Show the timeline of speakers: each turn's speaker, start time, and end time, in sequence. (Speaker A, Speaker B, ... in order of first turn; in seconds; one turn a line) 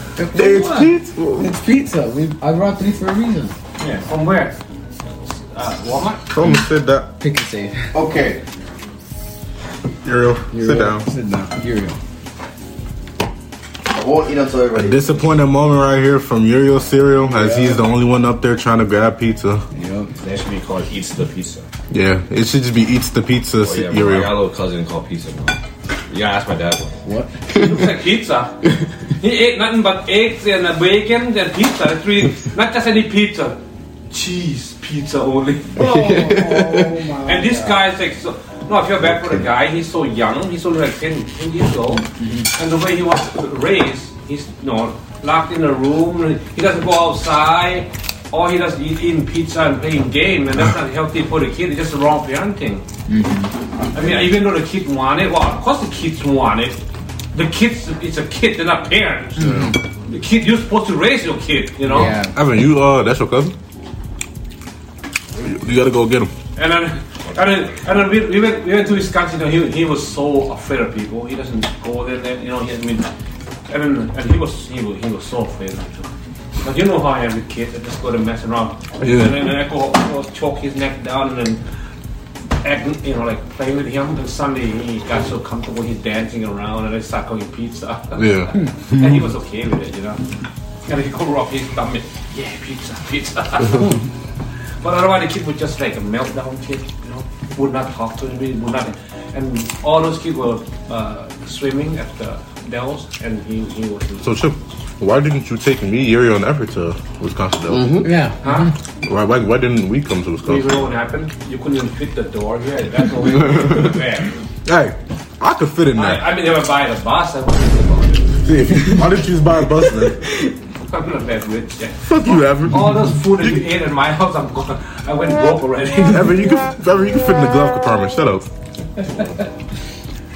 Speaker A: 0.2-3.5
Speaker B: 0.3-1.5
Speaker C: 3.8-4.6
Speaker C: 5.2-6.3
Speaker B: 6.3-7.1
Speaker A: 7.2-8.0
Speaker D: 7.9-8.4
Speaker B: 10.0-11.1
Speaker A: 10.5-12.0
Speaker D: 13.9-15.2
Speaker B: 14.7-19.6
Speaker A: 17.3-17.8
Speaker A: 19.7-20.1
Speaker E: 20.2-21.6
Speaker B: 21.9-24.4
Speaker E: 23.6-26.9
Speaker A: 27.0-27.5
Speaker C: 27.5-28.6
Speaker C: 29.2-33.6
Speaker C: 34.1-35.9
Speaker A: 35.8-37.9
Speaker D: 35.8-37.0
Speaker C: 37.2-42.0
Speaker D: 39.0-39.5
Speaker A: 41.9-42.5
Speaker C: 42.5-52.9
Speaker A: 53.1-53.5
Speaker C: 53.9-56.8
Speaker C: 57.3-62.2
Speaker A: 59.4-59.8
Speaker B: 59.4-59.7
Speaker A: 61.8-62.4
Speaker B: 62.3-63.5
Speaker B: 65.4-66.3
Speaker C: 66.5-73.1
Speaker C: 73.7-76.1
Speaker C: 76.6-81.6
Speaker B: 79.0-79.5
Speaker C: 82.6-90.2
Speaker B: 88.2-89.2
Speaker C: 90.9-93.9
Speaker C: 94.8-104.3
Speaker B: 104.2-108.0
Speaker D: 107.7-108.1
Speaker A: 108.0-108.7
Speaker C: 108.4-108.7
Speaker B: 109.0-110.8
Speaker C: 110.5-114.4
Speaker B: 114.7-116.3
Speaker C: 116.0-118.3
Speaker B: 118.4-120.2
Speaker A: 120.0-120.5
Speaker C: 120.9-126.5
Speaker B: 122.0-123.7
Speaker B: 126.0-128.5
Speaker C: 129.0-129.5